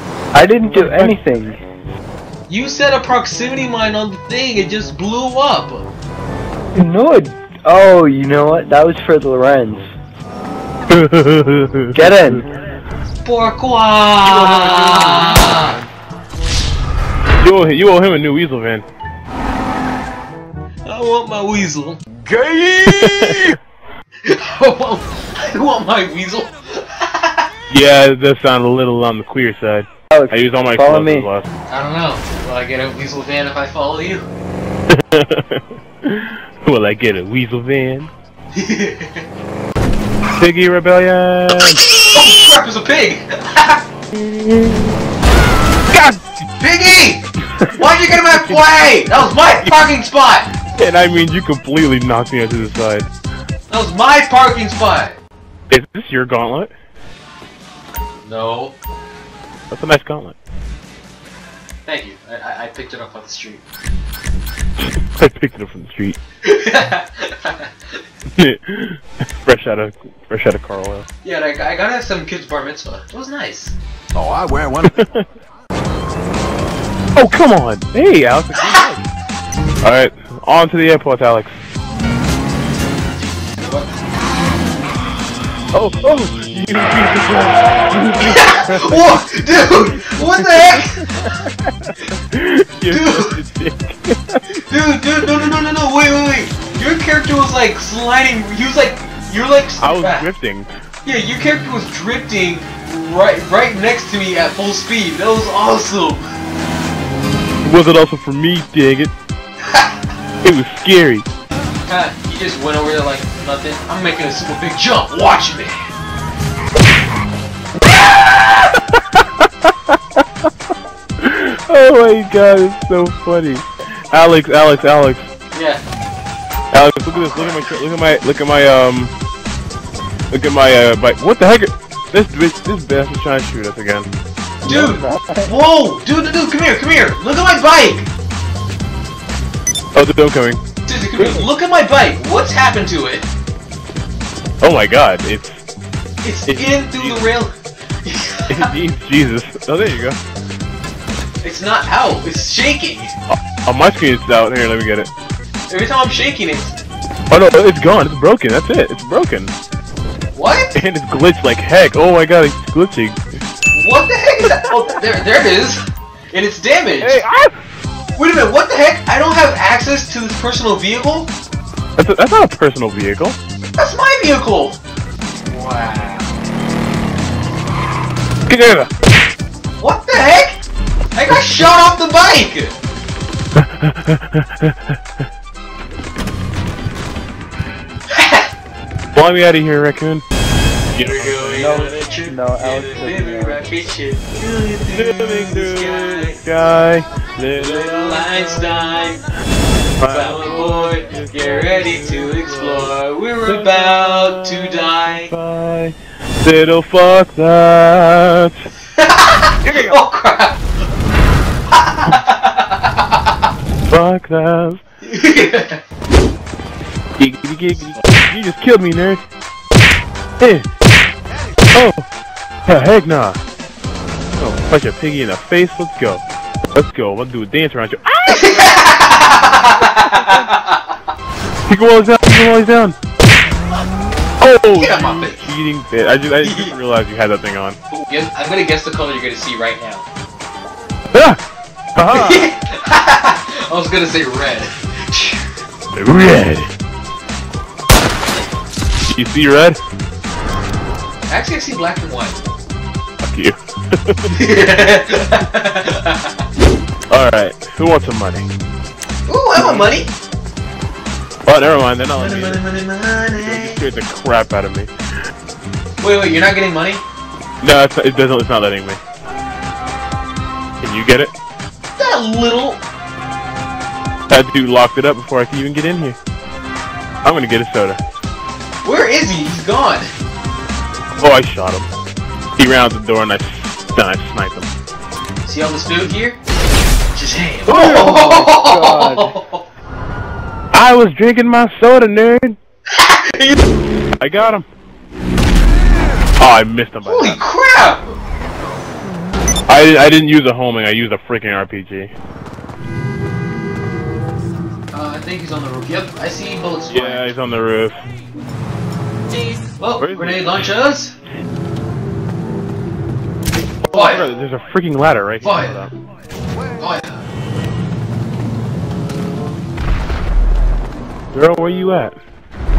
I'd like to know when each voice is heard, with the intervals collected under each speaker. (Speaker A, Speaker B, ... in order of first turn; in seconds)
Speaker A: 0.3-1.6, 6.7-9.9, 11.9-12.5, 30.1-31.3, 134.6-135.6, 191.6-193.7, 287.7-289.3
Speaker B: 0.6-1.2, 10.9-12.4, 14.2-15.9, 17.4-18.8, 22.9-23.5, 27.7-31.5, 34.9-38.1, 40.4-41.9, 44.1-44.9, 45.9-46.2, 48.2-48.6, 50.8-53.1, 55.7-56.7, 59.7-60.4, 65.0-66.2, 68.3-71.0, 74.8-75.3, 77.2-79.1, 79.8-81.5, 85.7-89.2, 92.3-94.6, 99.8-100.7, 107.6-109.1, 110.4-111.2, 118.7-120.2, 121.2-125.3, 126.7-129.1, 130.3-134.1, 139.9-140.6, 141.2-141.4, 144.6-145.6, 146.5-147.4, 148.5-150.2, 153.3-155.1, 157.3-159.5, 160.7-163.2, 167.0-167.5, 172.0-173.4, 178.5-178.9, 183.5-185.0, 189.1-190.2, 190.9-191.7, 194.9-198.8, 200.0-202.9, 203.4-204.6, 205.2-208.7, 209.6-209.9, 213.9-214.8, 217.2-219.2, 220.4-220.7, 221.7-222.1, 222.7-223.4, 224.4-228.5, 230.1-230.5, 231.7-233.0, 234.4-237.8, 241.1-241.4, 241.9-242.5, 245.9-246.7, 249.1-249.8, 253.2-254.3, 257.1-258.5, 259.6-259.9, 261.4-262.6, 263.4-264.9, 267.6-269.0, 270.8-271.3, 274.3-276.2, 277.2-278.0, 281.2-281.9, 282.6-284.7, 287.7-288.1, 290.7-292.6, 294.2-294.6, 296.4-297.4, 299.7-302.1, 306.9-308.0, 310.0-310.7, 313.8-315.9, 321.3-322.1
Speaker C: 2.5-5.9, 13.2-15.8, 20.8-22.2, 24.2-27.5, 31.7-34.2, 38.5-39.2, 41.7-43.8, 46.6-50.5, 53.7-55.2, 58.2-58.8, 61.9-63.6, 66.4-68.0, 71.2-73.8, 78.5-78.9, 83.2-84.0, 88.2-91.4, 92.9-93.4, 94.5-100.3, 101.0-106.3, 109.6-110.0, 111.9-115.9, 125.5-125.8, 127.1-127.7, 134.6-138.1, 140.8-143.3, 146.2-147.5, 148.0-148.7, 151.4-153.1, 155.7-156.8, 160.3-160.7, 163.7-165.8, 166.3-167.2, 168.2-171.3, 173.8-174.8, 175.5-176.3, 179.8-180.6, 181.1-182.8, 188.1-188.5, 190.9-196.4, 197.5-199.2, 200.0-205.3, 208.9-210.6, 211.7-213.4, 215.0-215.8, 228.2-230.9, 234.7-235.5, 236.4-236.7, 237.9-240.1, 242.1-245.5, 251.3-252.4, 254.3-256.4, 259.3-260.1, 262.1-263.8, 266.0-267.0, 272.0-272.8, 278.8-280.1, 285.4-286.4, 287.1-289.6, 292.9-293.6, 297.0-298.2, 304.9-307.3, 309.6-311.1, 313.9-314.3, 315.4-315.9, 316.8-317.2
Speaker D: 22.2-23.6, 74.1-75.0